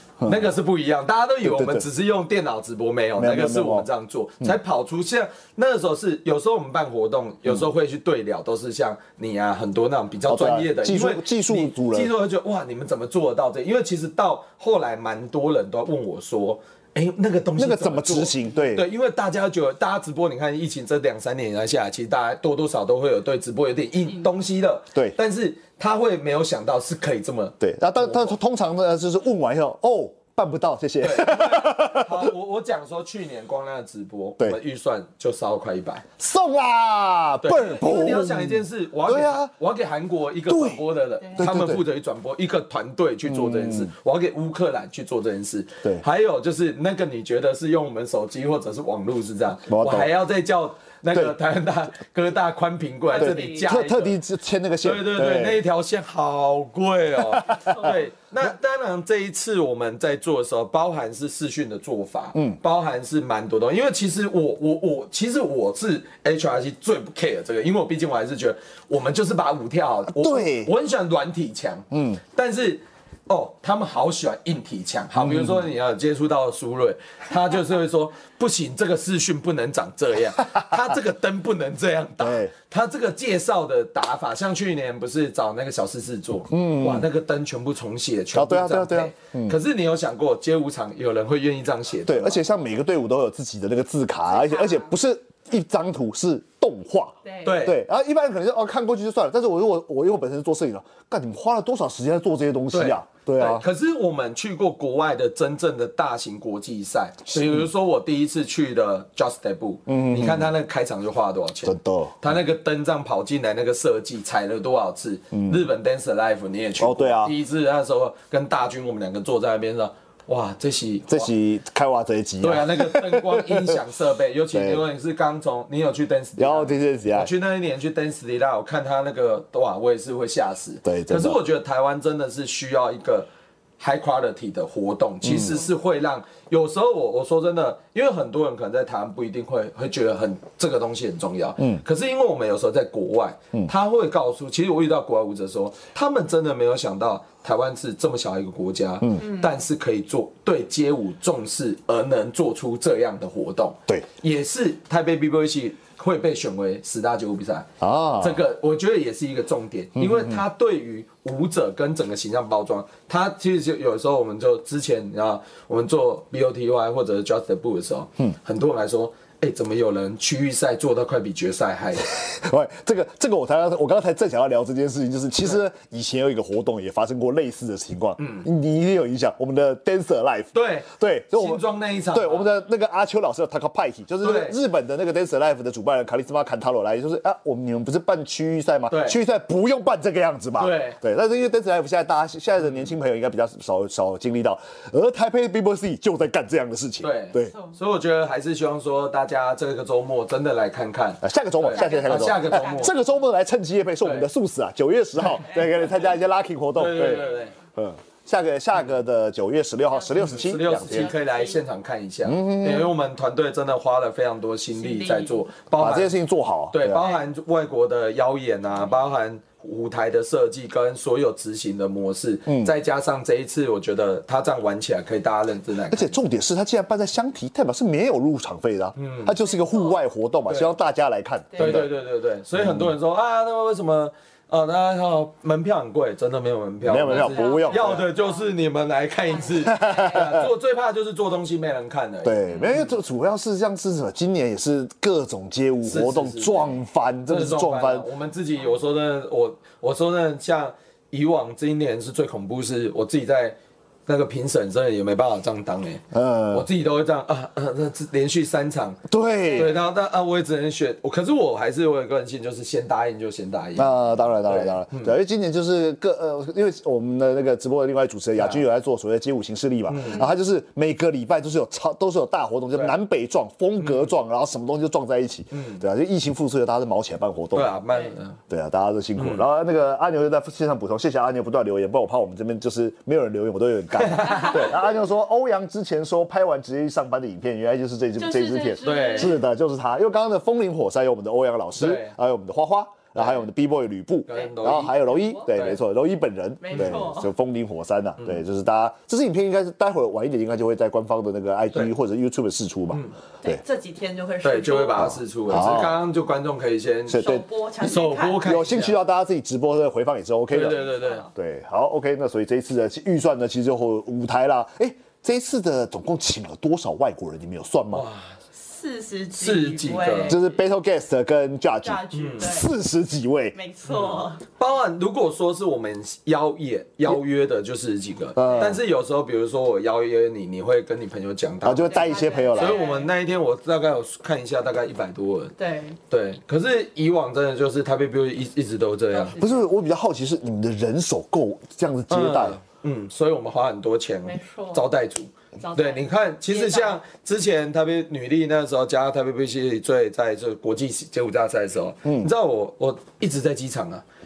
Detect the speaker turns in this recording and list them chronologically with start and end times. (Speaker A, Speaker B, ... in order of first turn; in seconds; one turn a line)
Speaker A: 0.2-0.5
Speaker B: 0.2-28.3
Speaker A: 1.4-1.9
Speaker A: 3.2-3.9
Speaker A: 10.3-12.1
Speaker A: 17.6-18.9
Speaker A: 27.6-32.3
Speaker B: 31.0-36.0
Speaker A: 36.2-39.5
Speaker B: 37.4-54.2
Speaker A: 40.5-40.8
Speaker A: 41.4-41.8
Speaker A: 43.2-43.9
Speaker A: 49.7-50.1
Speaker C: 53.1-53.7
Speaker A: 53.2-55.6
Speaker B: 54.8-92.4
Speaker A: 57.3-57.9
Speaker C: 57.5-57.9
Speaker A: 70.1-70.7
Speaker A: 71.9-72.2
Speaker A: 75.2-75.6
Speaker A: 82.2-82.5
Speaker A: 86.5-87.1
Speaker A: 88.3-89.6
Speaker A: 92.0-103.6
Speaker C: 94.3-94.9
Speaker C: 97.2-97.6
Speaker B: 97.4-97.8
Speaker B: 102.7-121.3
Speaker A: 109.9-110.5
Speaker A: 111.6-112.2
Speaker A: 116.8-117.3
Speaker A: 121.1-123.8
Speaker B: 122.4-172.1
Speaker A: 124.5-124.8
Speaker A: 126.4-127.3
Speaker A: 130.8-131.4
Speaker A: 135.2-135.6
Speaker A: 157.8-158.4
Speaker A: 159.9-160.4
Speaker A: 172.1-197.5
Speaker B: 178.2-178.4
Speaker B: 180.5-182.5
Speaker B: 184.2-184.6
Speaker B: 188.9-189.2
Speaker B: 190.6-191.0
Speaker B: 197.0-202.9
Speaker A: 201.2-211.1
Speaker C: 201.7-203.0
Speaker B: 204.0-204.3
Speaker B: 206.7-207.5
Speaker C: 210.1-211.6
Speaker B: 210.2-216.2
Speaker A: 212.2-212.9
Speaker C: 214.7-215.5
Speaker A: 215.8-217.1
Speaker B: 216.7-226.1
Speaker A: 222.5-222.7
Speaker A: 225.9-231.9
Speaker B: 229.0-229.4
Speaker C: 229.4-230.0
Speaker B: 230.5-230.7
Speaker C: 231.5-231.8
Speaker B: 231.6-242.9
Speaker A: 232.6-232.9
Speaker A: 236.8-238.1
Speaker C: 237.0-238.5
Speaker C: 239.3-239.8
Speaker A: 239.6-240.5
Speaker A: 242.2-248.1
Speaker B: 245.8-253.6
Speaker B: 254.1-265.1
Speaker A: 256.1-256.7
Speaker A: 259.1-259.7
Speaker C: 259.5-259.8
Speaker A: 263.8-277.8
Speaker B: 268.4-268.6
Speaker B: 269.9-270.2
Speaker B: 273.8-274.1
Speaker B: 275.5-275.8
Speaker B: 277.5-278.4
Speaker A: 278.5-303.6
Speaker B: 279.1-279.4
Speaker B: 284.0-284.7
Speaker C: 288.2-289.4
Speaker B: 288.8-289.4
Speaker B: 291.8-292.1
Speaker B: 293.2-293.4
Speaker B: 294.3-295.8
Speaker C: 294.3-295.5
Speaker C: 296.6-297.3
Speaker C: 303.4-305.2
Speaker B: 304.4-309.0
Speaker A: 305.0-306.0
Speaker A: 307.1-307.4
Speaker C: 307.1-308.5
Speaker A: 308.4-318.0
Speaker B: 310.5-311.2
Speaker C: 310.7-311.3
Speaker B: 317.9-318.3
Speaker C: 318.6-320.6
Speaker B: 319.4-320.4
Speaker A: 320.3-323.5
Speaker C: 321.8-322.7
Speaker B: 322.1-322.5
Speaker C: 323.5-324.4
Speaker B: 323.9-335.5
Speaker A: 328.4-328.8
Speaker A: 331.6-332.8
Speaker C: 331.8-333.1
Speaker C: 335.6-336.0
Speaker B: 336.1-339.4
Speaker C: 339.1-339.6
Speaker A: 339.4-342.6
Speaker B: 342.1-354.0
Speaker C: 344.2-344.9
Speaker C: 345.6-347.0
Speaker A: 352.0-352.3